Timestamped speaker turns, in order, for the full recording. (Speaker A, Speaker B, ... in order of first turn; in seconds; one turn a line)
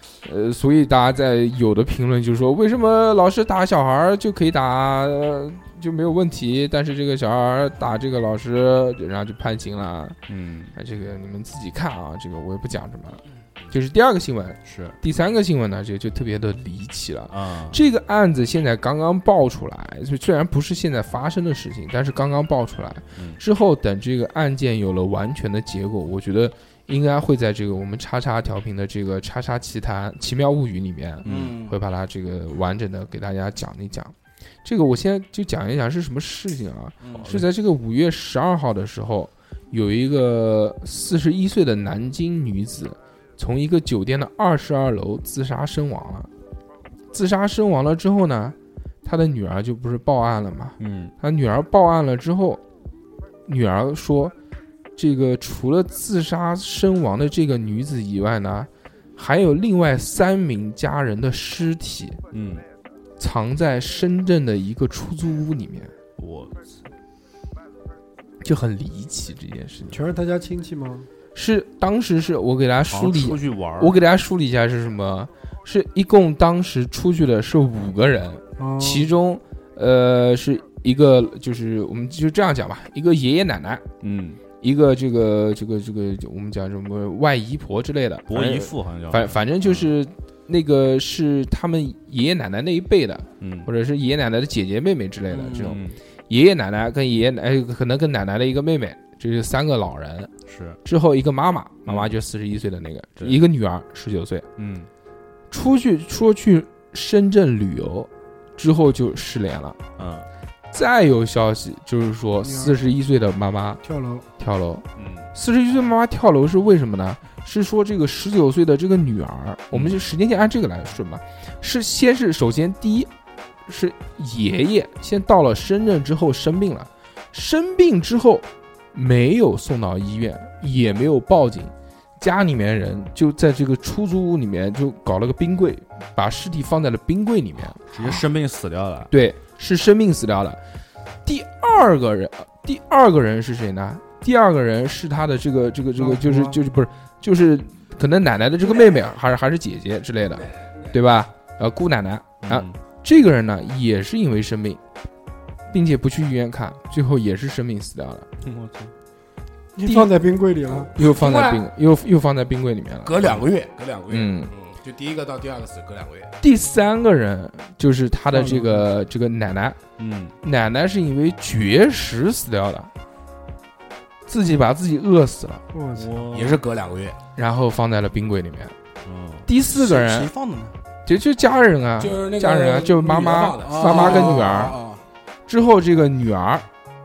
Speaker A: 0.2-10.2
Speaker B: 10.3-10.8
Speaker A: 10.7-46.3
Speaker B: 14.6-14.9
Speaker B: 17.3-17.8
Speaker B: 23.1-23.4
Speaker B: 31.2-31.6
Speaker C: 31.2-31.8
Speaker B: 37.2-37.5
Speaker A: 47.1-52.6
Speaker B: 50.8-51.1
Speaker A: 53.5-54.3
Speaker A: 55.0-62.2
Speaker B: 62.3-62.6
Speaker A: 63.2-65.9
Speaker B: 66.2-66.8
Speaker A: 68.4-70.0
Speaker D: 69.9-71.1
Speaker A: 71.3-83.8
Speaker B: 72.9-74.0
Speaker D: 78.6-79.1
Speaker B: 84.0-84.4
Speaker A: 84.6-100.3
Speaker B: 88.3-89.9
Speaker B: 93.4-93.7
Speaker B: 95.6-96.0
Speaker B: 100.5-100.8
Speaker A: 100.8-104.5
Speaker B: 101.9-102.1
Speaker B: 104.6-104.9
Speaker A: 105.5-109.8
Speaker B: 110.0-110.3
Speaker A: 110.7-113.8
Speaker D: 112.4-112.8
Speaker D: 113.8-114.2
Speaker A: 114.4-123.1
Speaker B: 115.0-115.3
Speaker A: 123.7-138.2
Speaker B: 137.8-139.1
Speaker A: 139.1-140.6
Speaker A: 141.2-154.8
Speaker D: 145.9-146.6
Speaker E: 150.6-150.9
Speaker B: 152.4-152.8
Speaker A: 155.7-158.3
Speaker B: 158.4-158.9
Speaker D: 159.8-160.9
Speaker A: 159.8-160.1
Speaker A: 160.9-163.2
Speaker E: 161.0-161.7
Speaker E: 163.0-166.3
Speaker A: 164.1-164.5
Speaker A: 166.4-169.8
Speaker D: 168.3-168.9
Speaker B: 170.0-170.3
Speaker A: 170.4-172.9
Speaker A: 174.3-175.6
Speaker D: 175.7-176.6
Speaker B: 175.9-176.3
Speaker E: 176.2-177.2
Speaker A: 177.3-178.7
Speaker B: 179.0-179.5
Speaker A: 179.4-180.3
Speaker C: 179.7-180.7
Speaker A: 181.1-184.8
Speaker E: 182.0-184.9
Speaker C: 183.6-185.0
Speaker A: 185.5-186.6